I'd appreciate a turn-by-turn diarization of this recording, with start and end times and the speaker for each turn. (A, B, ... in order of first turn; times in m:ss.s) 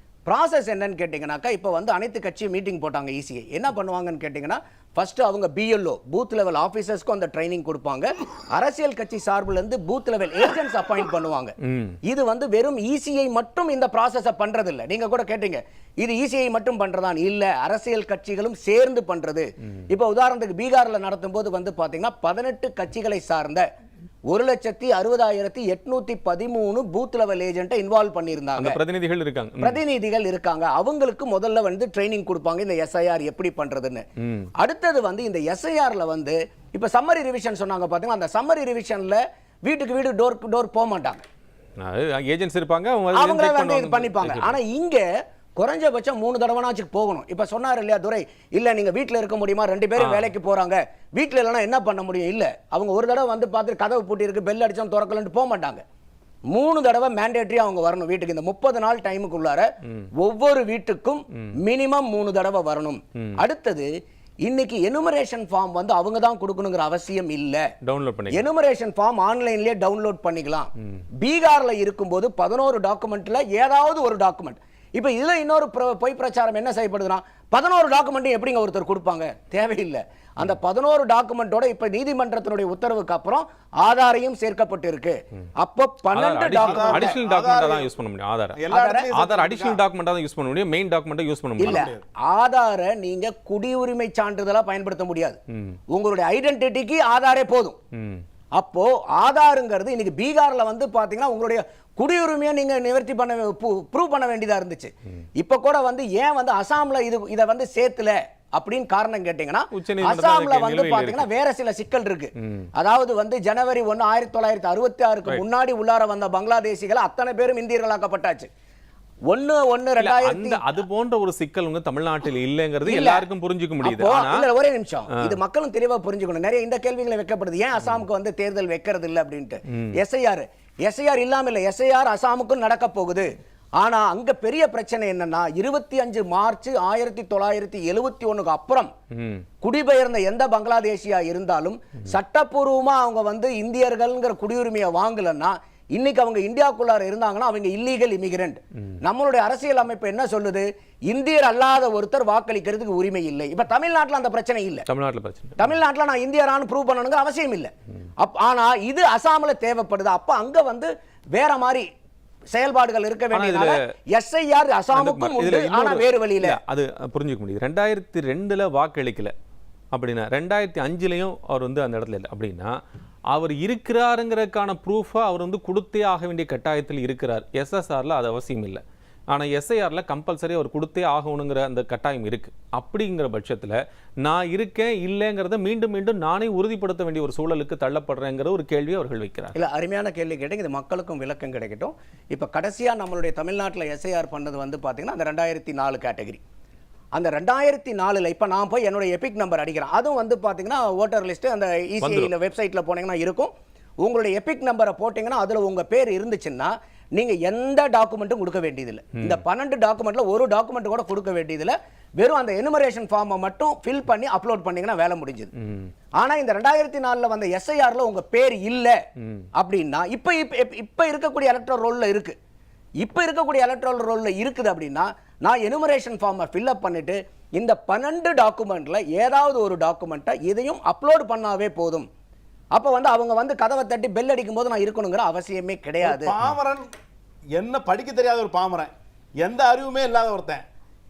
0:00.3-0:11.5 A
0:11.6-0:12.0 B
0:12.0-0:23.7 A
0:24.3-0:28.8 A
0:28.6-0:29.8 B
0:29.6-0:34.0 A
0:34.2-0:34.5 B
0:34.6-0:41.2 A
0:41.8-0:44.6 B
0:43.1-0:45.0 A
0:45.6-0:55.8 A
0:50.0-0:50.3 B
0:56.5-1:03.9 A
1:04.5-1:07.6 A
1:07.8-1:08.5 B
1:08.3-1:27.2 A
1:26.1-1:31.9 B
1:26.6-1:27.9 C
1:28.6-1:29.8 C
1:28.7-1:29.1 A
1:31.6-1:35.4 A
1:31.6-1:32.0 C
1:35.9-1:37.8 A
1:38.0-1:38.2 B
1:38.6-1:58.5 A
1:49.7-1:51.3 B
1:59.3-2:00.8 A
2:00.0-2:04.5 B
2:02.8-2:03.3 A
2:03.8-2:18.9 A
2:19.2-2:19.4 B
2:19.6-2:34.9 A
2:34.9-2:35.7 B
2:35.6-2:41.9 A
2:42.5-2:46.6 A
2:43.3-2:43.8 B
2:44.9-2:49.3 B
2:49.9-2:52.8 B
2:53.3-3:09.6 B
3:09.6-3:16.4 A
3:17.2-3:23.5 A
3:22.0-3:22.3 B
3:24.0-3:35.5 A
3:29.2-3:29.4 B
3:35.6-3:35.9 B
3:36.2-3:39.0 A
3:39.2-3:39.5 B
3:39.6-3:42.4 A
3:43.0-3:52.1 A
3:52.8-3:56.3 A
3:56.0-3:56.9 C
3:57.6-4:00.6 C